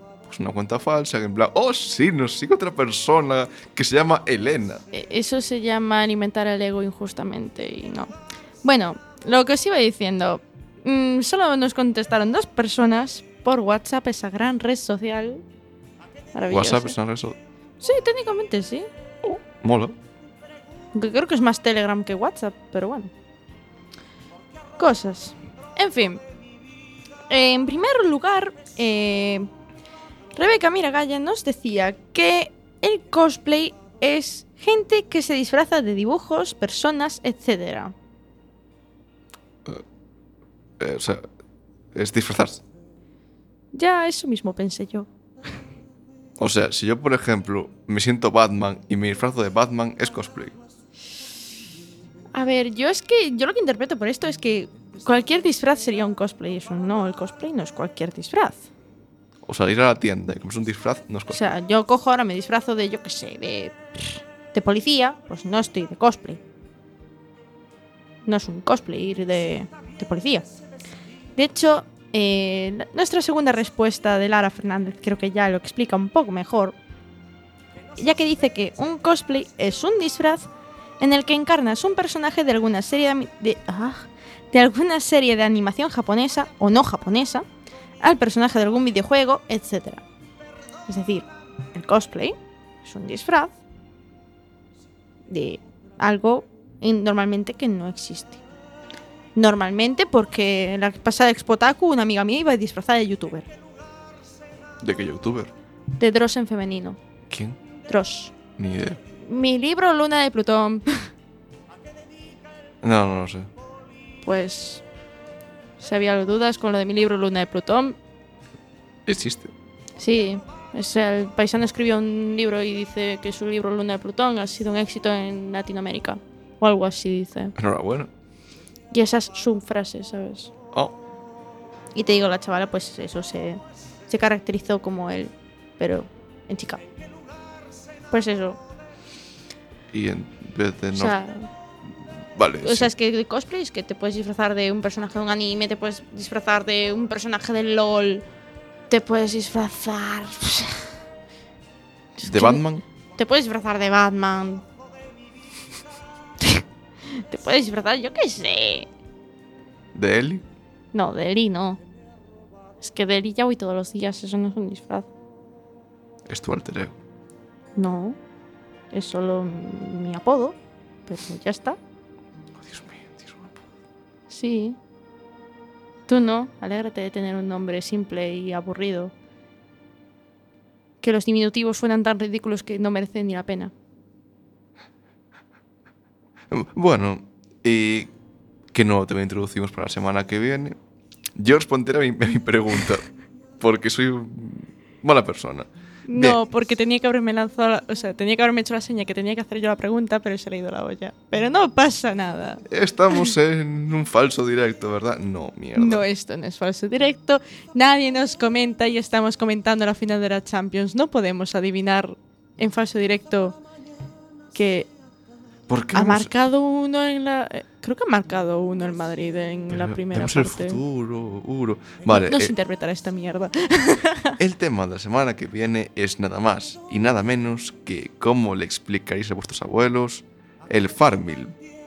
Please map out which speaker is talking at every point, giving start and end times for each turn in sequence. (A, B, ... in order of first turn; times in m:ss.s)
0:00.2-0:04.8 A
0:04.9-0:15.4 B
0:16.3-0:17.0 B
0:16.5-0:17.4 A
0:17.8-0:18.9 B
0:19.2-0:20.0 A
0:20.9-0:23.1 B
0:24.8-0:26.2 B
0:27.3-0:29.5 B
0:30.3-0:37.9 B
0:40.8-0:41.2 A
0:41.9-0:42.6 A
0:43.7-0:45.1 B
0:46.4-0:50.5 A
0:52.3-0:58.7 B
0:59.4-1:01.4 A
1:01.3-1:06.4 B
1:08.2-1:10.5 B
1:11.4-1:16.8 B
1:18.0-1:27.4 B
1:28.0-1:30.0 B
1:30.9-1:33.5 B
1:35.3-1:38.4 B
1:39.4-1:43.5 B
1:44.8-1:45.5 A
1:46.0-1:47.0 B
1:47.3-1:47.6 A
1:47.9-1:48.4 B
1:48.6-1:49.0 A
1:49.2-1:51.1 B
1:52.8-1:53.5 A
1:54.2-1:54.8 B
1:55.8-1:58.0 B
1:59.0-1:59.5 A
2:00.0-2:07.6 B
2:07.6-2:08.1 A
2:08.9-2:10.5 B
2:11.9-2:16.8 B
2:18.1-2:18.6 B
2:19.9-2:21.1 A
2:20.9-2:21.5 B
2:22.3-2:22.9 A
2:22.6-2:28.2 B
2:28.9-2:30.9 B
2:32.2-2:32.6 B
2:32.2-2:32.8 A
2:33.2-2:34.6 B
2:36.4-2:38.9 B
2:39.9-2:40.4 A
2:40.9-2:41.8 B
2:42.8-2:45.1 B
2:46.3-2:47.0 A
2:47.8-2:48.2 B
2:48.9-2:51.8 B
2:52.6-2:53.6 A
2:54.3-2:54.8 B
2:56.1-2:59.1 B
3:01.0-3:03.7 B
3:06.5-3:08.1 A
3:08.7-3:10.8 A
3:11.4-3:13.0 A
3:13.6-3:16.4 A
3:16.1-3:23.3 B
3:22.7-3:26.0 A
3:25.7-3:33.6 B
3:34.5-3:34.9 B
3:35.7-3:36.3 A
3:35.9-3:40.8 B
3:39.7-3:42.5 A
3:42.0-3:44.4 B
3:44.4-3:51.6 A